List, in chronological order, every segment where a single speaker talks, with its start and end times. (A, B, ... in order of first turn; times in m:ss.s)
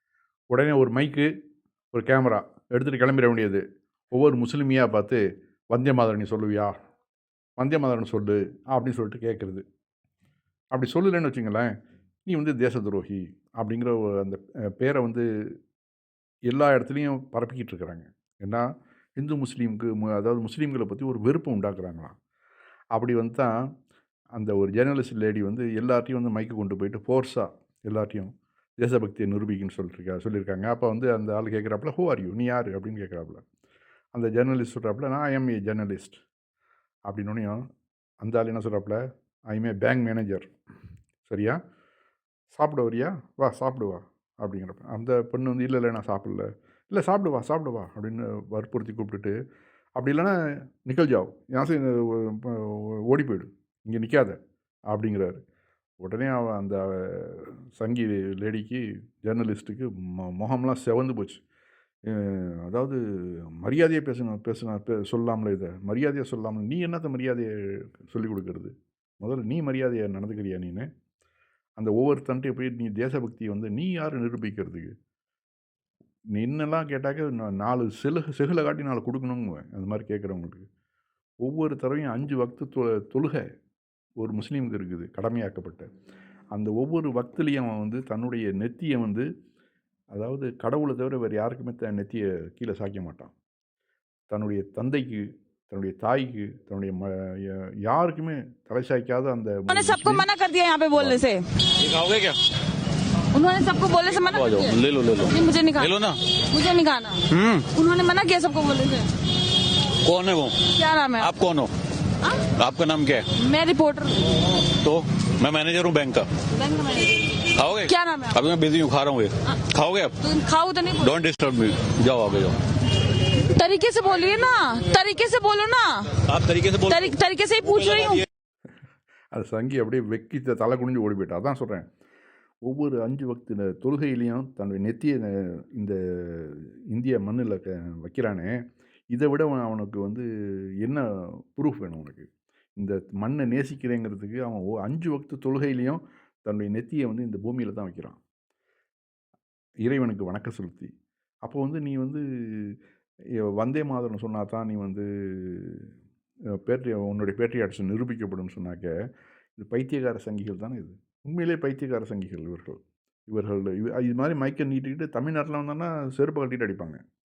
0:00.5-0:01.3 A
0:01.9-0:03.6 A
0:04.1-0:06.7 A
0:07.6-0:09.6 A
0:10.7-0:11.7 A
0:12.3-0:15.2 A
0:16.5-0:18.7 A
0:19.2-0:22.2 A
0:22.9-0:23.5 A
0:24.4-0:33.4 A
0:34.1-0:36.2 A
0:37.1-0:37.6 A
0:38.2-0:39.0 A
0:39.5-0:40.5 A
0:41.3-0:41.6 A
0:42.5-0:49.3 A
0:50.0-0:54.4 A
0:54.9-0:55.4 A
0:56.0-1:01.4 A
1:02.1-1:10.9 A
1:11.8-1:14.9 A
1:16.4-1:20.6 A
1:21.4-1:23.4 A
1:24.2-1:25.9 A
1:26.5-1:29.3 A
1:30.1-1:33.3 A
1:34.3-1:40.3 A
1:39.7-1:41.4 B
1:41.8-1:42.4 C
1:43.3-1:45.9 B
1:44.3-1:46.2 C
1:46.5-1:49.1 B
1:47.3-1:47.7 C
1:50.0-1:51.7 C
1:50.8-1:51.3 B
1:52.4-1:53.4 C
1:53.4-1:54.4 B
1:54.8-1:56.3 C
1:56.5-1:57.3 B
1:57.5-2:00.2 C
1:57.8-1:58.4 B
2:00.2-2:01.2 B
2:01.0-2:02.6 C
2:03.4-2:06.2 B
2:06.2-2:07.1 C
2:06.9-2:08.2 B
2:09.3-2:11.9 A
2:12.6-2:18.5 A
2:19.1-2:20.3 A
2:20.8-2:22.3 A
2:22.8-2:28.2 A
2:29.8-2:30.9 A
2:31.4-2:32.8 A
2:33.4-2:35.9 A
2:36.6-2:38.9 A
2:39.6-2:42.8 A
2:43.3-2:47.0 A